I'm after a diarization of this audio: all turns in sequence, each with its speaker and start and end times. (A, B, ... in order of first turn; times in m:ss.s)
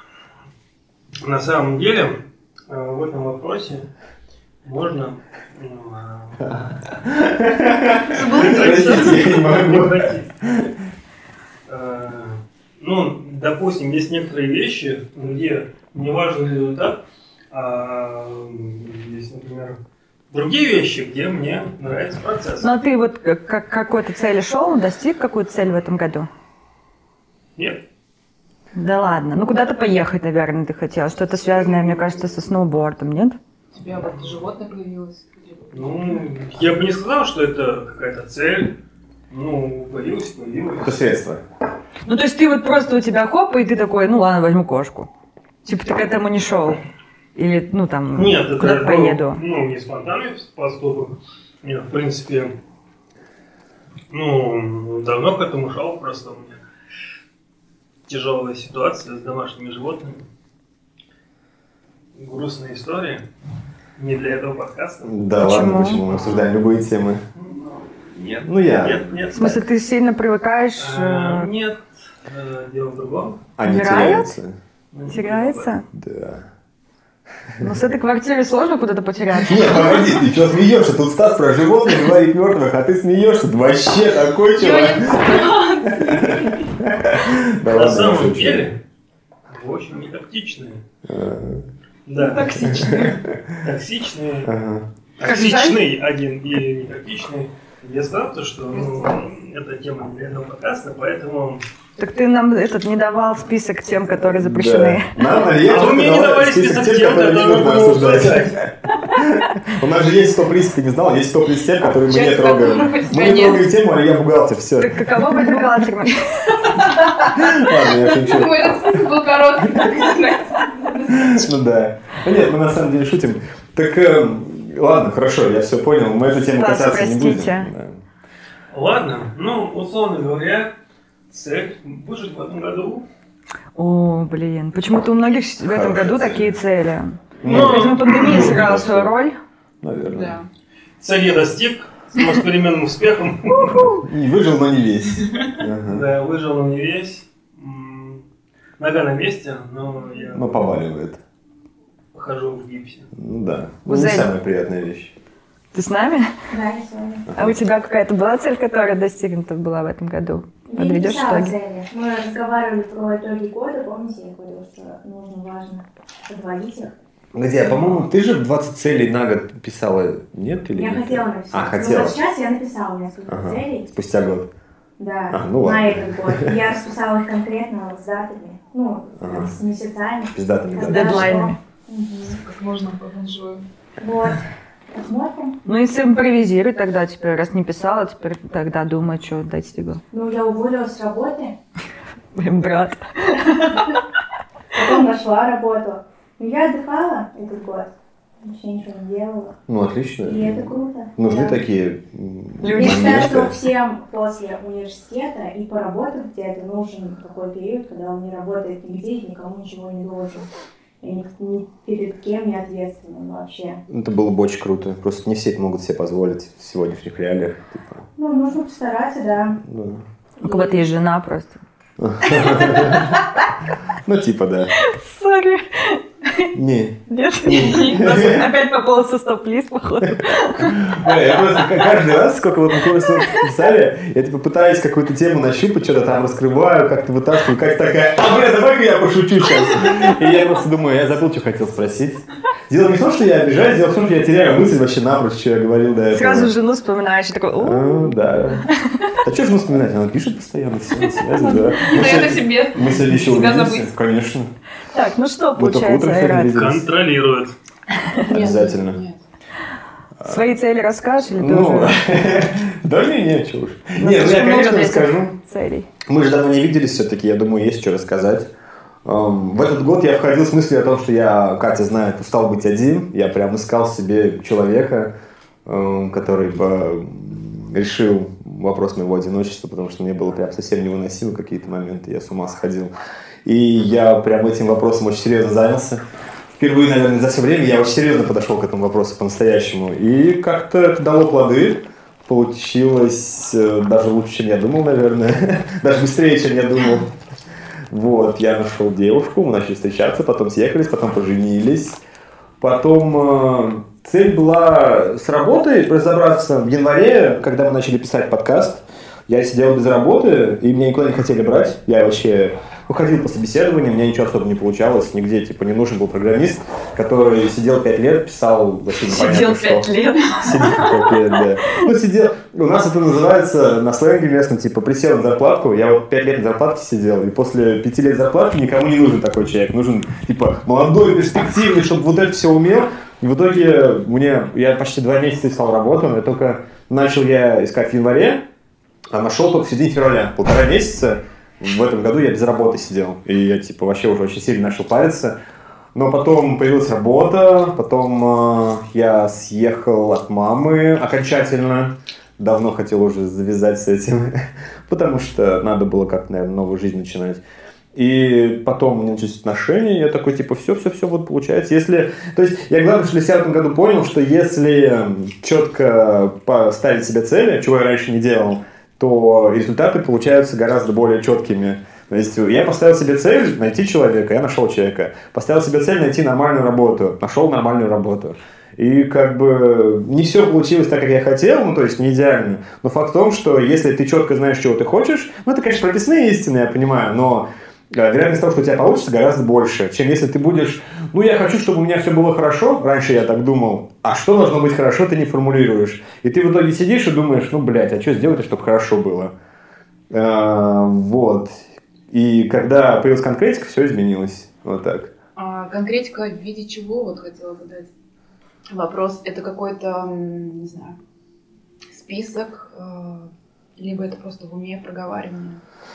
0:01.2-0:03.9 A
0:04.6-0:06.6 A
0:06.5-0:10.6 B
0:08.2-0:10.3 A
0:08.2-0:08.7 C
0:08.5-0:08.8 D
0:11.7-0:19.8 A
0:20.3-0:22.7 A
0:22.6-0:26.3 C
0:28.8-0:33.4 C
0:33.7-0:36.1 D
0:35.7-0:38.8 A
0:39.3-0:41.0 A
0:40.8-0:41.4 B
0:42.1-0:45.1 C
0:45.6-0:46.8 C
0:47.4-0:49.4 C
0:48.1-0:52.5 A
0:54.1-0:56.6 A
0:58.1-1:00.2 A
1:02.2-1:03.2 A
1:04.0-1:05.2 A
1:05.0-1:07.2 B
1:05.4-1:06.0 C
1:06.2-1:06.5 A
1:07.4-1:09.6 A
1:08.4-1:09.1 B
1:09.4-1:11.5 C
1:10.8-1:13.4 A
1:13.6-1:14.6 B
1:13.6-1:14.3 C
1:14.9-1:15.8 A
1:15.1-1:15.8 C
1:15.9-1:16.5 B
1:17.6-1:20.2 C
1:19.5-1:28.8 B
1:24.6-1:26.7 D
1:27.7-1:28.8 A
1:29.5-1:30.8 A
1:31.1-1:31.7 B
1:32.1-1:33.1 A
1:32.2-1:33.2 C
1:32.6-1:33.5 B
1:33.6-1:34.5 A
1:34.4-1:34.9 B
1:35.2-1:41.6 A
1:35.2-1:35.8 C
1:42.0-1:45.1 C
1:44.3-1:55.0 B
1:45.6-1:48.6 A
1:52.1-1:53.6 D
1:54.8-1:56.7 C
1:56.8-2:01.4 D
1:57.2-1:58.9 B
2:01.1-2:08.0 B
2:06.6-2:07.7 C
2:08.7-2:10.7 A
2:11.3-2:13.1 A
2:13.8-2:19.4 C
2:15.7-2:16.5 B
2:17.4-2:19.1 B
2:17.4-2:18.6 A
2:19.8-2:20.4 B
2:20.1-2:20.5 D
2:21.0-2:23.9 A
2:23.7-2:26.1 B
2:25.8-2:28.2 A
2:28.8-2:30.4 A
2:30.3-2:31.2 B
2:32.1-2:33.1 A
2:33.2-2:35.2 B
2:33.9-2:34.3 C
2:35.7-2:36.3 C
2:36.5-2:37.3 E
2:37.3-2:37.6 B
2:37.4-2:41.6 C
2:40.7-2:46.9 E
2:47.3-2:52.2 B
2:50.7-2:53.9 E
2:53.3-2:54.5 B
2:55.0-3:02.4 E
2:55.3-2:56.6 B
2:59.2-2:59.5 B
3:00.3-3:01.3 B
3:00.8-3:01.6 C
3:02.3-3:03.7 D
3:04.0-3:05.6 E
3:05.6-3:10.0 C
3:10.1-3:11.5 E
3:12.4-3:14.0 C
3:14.7-3:19.6 E
3:19.7-3:23.6 B
3:20.2-3:21.6 E
3:22.6-3:23.4 C
3:22.7-3:30.5 E
3:31.0-3:33.8 E
3:33.9-3:38.1 B
3:38.2-3:39.6 E
3:39.6-3:40.0 B
3:40.4-3:41.6 C
3:42.0-3:43.2 B
3:42.3-3:43.2 C
3:44.0-3:44.7 B
3:44.8-3:46.5 C
3:46.5-3:48.5 B
3:47.1-3:51.0 C
3:50.6-4:06.5 B
3:53.0-3:53.4 C
4:06.1-4:09.1 C
4:07.6-4:08.7 B
4:09.2-4:14.5 B
4:11.4-4:13.9 D
4:14.9-4:16.6 C
4:15.6-4:16.9 B
4:16.5-4:17.6 A
4:18.2-4:19.2 D
4:18.3-4:19.0 B
4:20.2-4:22.0 C
4:21.4-4:25.3 B
4:24.0-4:25.9 C
4:26.1-4:28.5 B
4:29.0-4:35.1 B
4:35.7-4:42.9 B
4:43.4-4:46.0 B
4:46.5-4:57.1 B
4:57.9-5:02.0 B
5:02.6-5:38.4 B
5:19.1-5:21.0 C
5:39.1-5:45.4 B
5:46.0-5:57.4 B
5:58.0-6:39.3 B
6:40.1-6:45.1 B
6:45.4-6:47.9 D
6:48.7-6:51.0 D
6:51.9-6:55.6 D